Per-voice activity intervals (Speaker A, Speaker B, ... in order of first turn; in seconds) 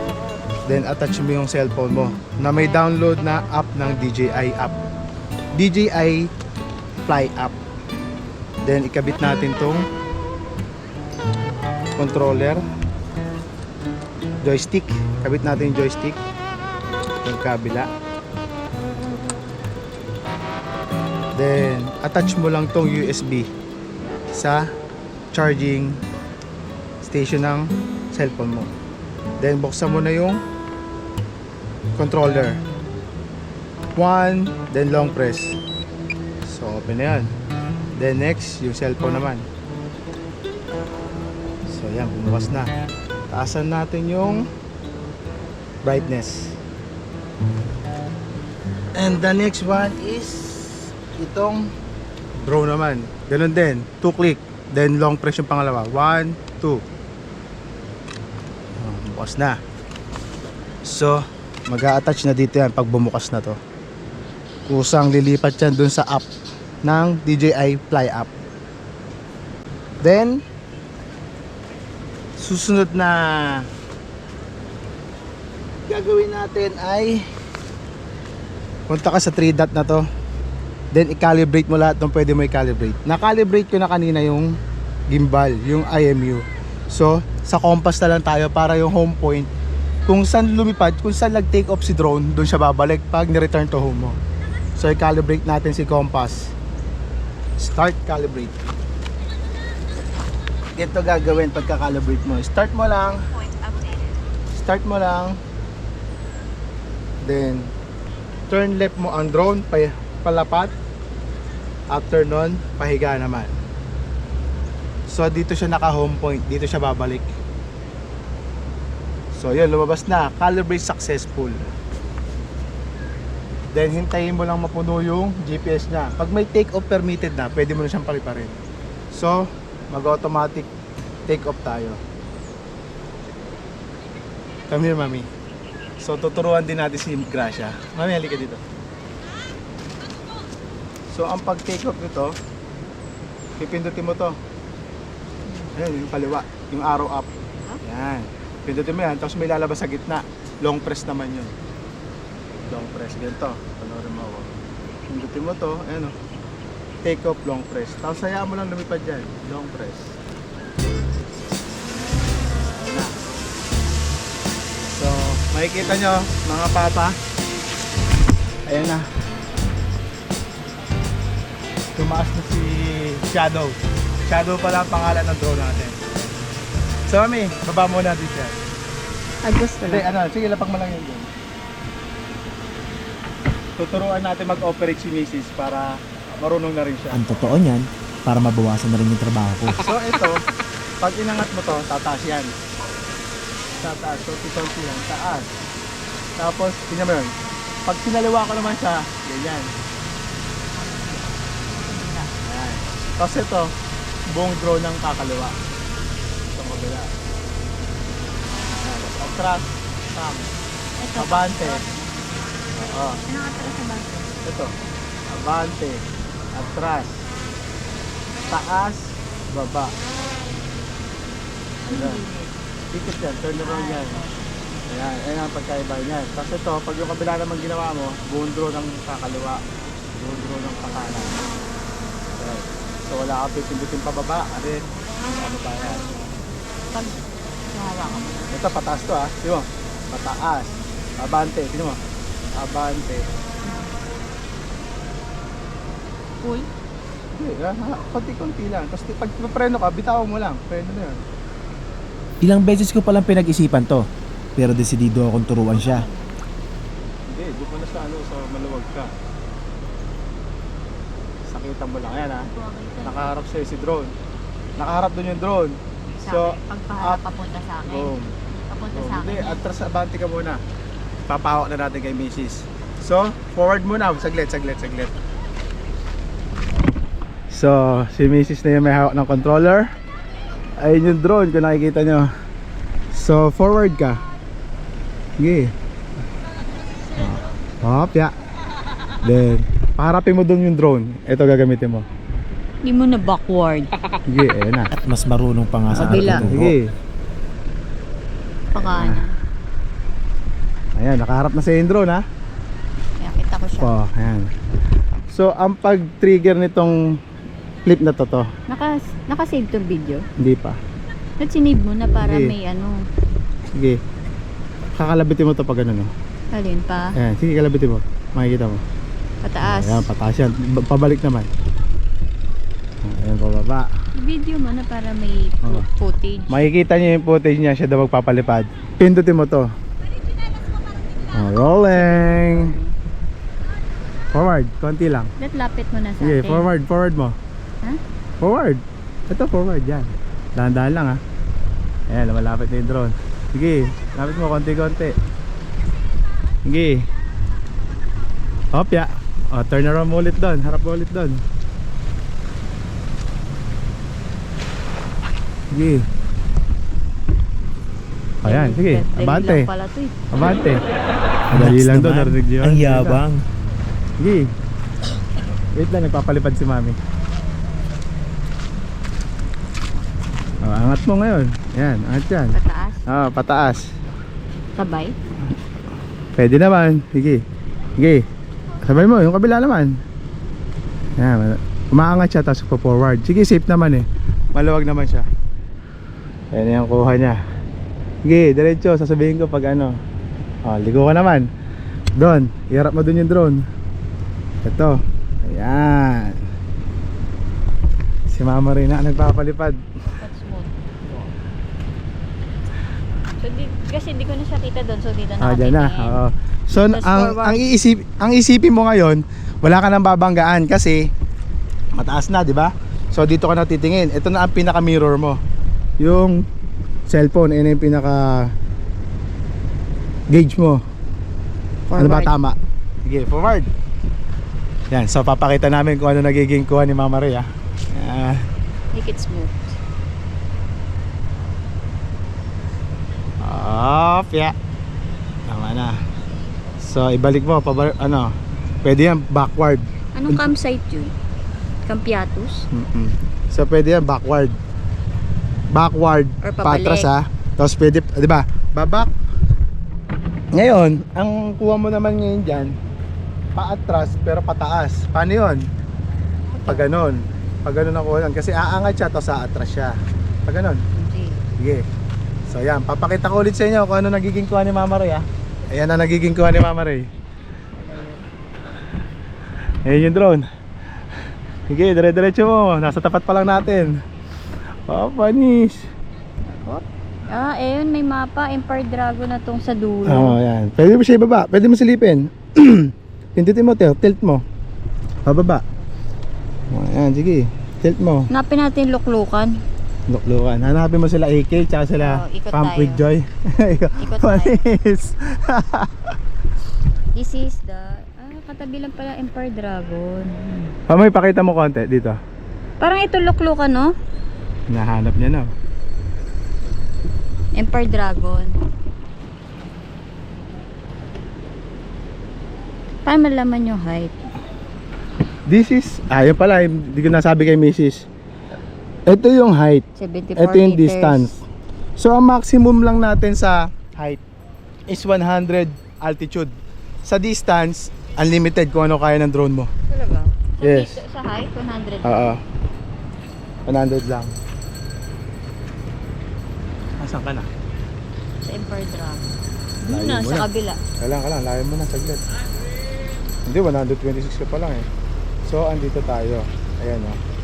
Speaker A: 0.7-4.8, 5.5-6.3, 7.0-7.6, 8.6-9.9, 11.9-12.6, 14.4-16.2, 17.2-17.9, 21.3-23.5, 24.3-24.6, 25.3-26.0, 27.0-28.7, 29.4-30.4, 32.0-32.6, 34.0-35.6, 36.4-37.3, 38.0-39.5, 41.7-42.7, 43.3-44.4, 45.8-46.6, 48.9-51.7, 52.4-56.8, 58.8-59.5, 60.9-63.6, 64.7-66.2, 66.8-68.3, 70.0-70.4, 72.4-73.6, 75.9-77.2, 78.9-80.0, 80.9-84.5, 85.1-89.5, 90.1-94.2, 94.8-96.5, 97.6-98.6, 100.7-103.2, 104.5-105.4, 107.2-107.7, 108.5-110.7, 111.9-113.5, 115.1-117.3, 119.3-121.6, 123.7-128.6, 129.1-129.4, 129.9-130.7, 131.3-132.0, 134.7-135.3, 136.0-138.6, 141.1-142.3, 143.6-144.3, 145.7-147.3, 147.8-151.5, 152.7-154.5, 155.1-156.1, 157.0-160.2, 162.8-163.1, 164.8-167.2, 168.7-169.0, 171.9-176.2, 177.1-178.6, 179.8-181.3, 183.8-187.3, 189.7-190.4, 191.0-192.5, 193.8-195.5, 196.4-197.3, 197.8-199.7, 202.4-203.7, 204.3-205.6, 206.5-207.1, 208.8-210.5, 211.2-211.8, 212.7-213.2, 214.4-214.7, 215.3-216.0, 216.5-217.2, 218.5-219.9, 221.9-222.2, 222.9-224.2, 224.9-229.6, 230.2-231.4, 232.3-236.1, 238.5-242.0, 242.5-243.2, 247.4-251.2, 257.3-259.1, 261.4-262.5, 263.0-264.1, 264.8-267.2, 267.9-268.3, 268.9-270.6, 271.3-275.1, 277.5-279.9, 280.8-282.3, 283.1-284.2, 285.4-285.7, 287.2-288.3, 289.2-292.0, 294.3-294.9, 295.9-296.9, 298.8-299.2, 301.0-302.2, 303.8-304.5, 305.3-307.0, 307.8-308.5, 310.4-310.8, 312.2-312.5, 314.9-316.1, 317.2-318.8, 319.6-321.5, 323.0-323.9, 326.5-329.6, 331.3-332.7, 334.3-335.3, 336.2-337.4, 338.4-341.2, 342.1-345.1, 346.6-347.1, 348.7-351.4, 355.7-356.0, 358.4-359.7, 360.3-360.8, 361.5-363.2, 364.2-364.5, 365.7-367.0, 370.6-372.6, 373.1-373.8, 376.4-377.4, 378.0-378.2, 378.8-379.9, 381.2-385.2, 386.5-387.4, 388.2-389.9, 390.6-391.4, 392.2-393.6, 394.6-396.4, 398.3-399.8, 405.4-411.0, 411.9-415.4, 416.0-416.4, 417.1-418.4, 420.3-420.8, 421.9-423.7, 424.9-428.4, 433.4-434.5, 435.5-435.9, 436.8-438.3, 438.8-440.4, 442.7-444.6, 445.7-449.1, 450.5-452.7, 453.5-455.6, 456.7-459.9, 460.4-460.8, 462.5-467.1, 469.8-470.4, 471.7-473.9, 474.9-475.8, 480.1-484.4, 485.2-485.6, 486.7-488.3, 490.1-496.1, 500.9-502.1, 504.7-505.5, 515.5-518.0, 519.1-519.8, 520.4-521.4, 522.0-524.2, 524.9-526.5, 527.0-529.7, 530.6-531.0, 532.0-532.4, 533.7-534.3, 537.0-537.5, 539.9-540.5, 541.0-542.2, 543.5-544.9, 545.4-547.2
Speaker B: 145.4-145.7, 179.4-180.1, 201.7-202.3, 211.0-212.1, 213.2-214.3, 221.9-222.5, 223.6-224.4, 236.9-238.5, 243.7-243.9, 246.4-246.7, 255.7-256.4, 262.3-263.3, 266.2-269.6, 292.8-293.9, 295.9-296.5, 298.7-299.3, 303.2-303.9, 308.7-310.2, 311.4-313.0, 316.5-317.1, 319.4-320.1, 324.2-326.6, 331.9-332.9, 335.4-336.7, 358.4-360.3, 372.5-373.1, 374.7-375.1, 400.1-400.8, 403.4-406.2, 406.7-407.6, 421.9-422.3, 428.9-429.7, 440.1-441.1, 441.9-442.6, 446.4-447.1, 456.5-456.9, 460.9-461.4, 467.8-468.2, 476.5-480.4, 488.3-489.5, 492.0-493.0, 494.0-494.6, 497.1-500.7, 502.8-503.9, 507.6-508.5, 513.0-514.1, 520.0-521.3, 529.9-532.4, 538.4-539.2, 539.8-540.8
Speaker C: 187.1-189.8, 252.4-254.0, 254.6-256.1, 295.0-296.8, 361.5-363.4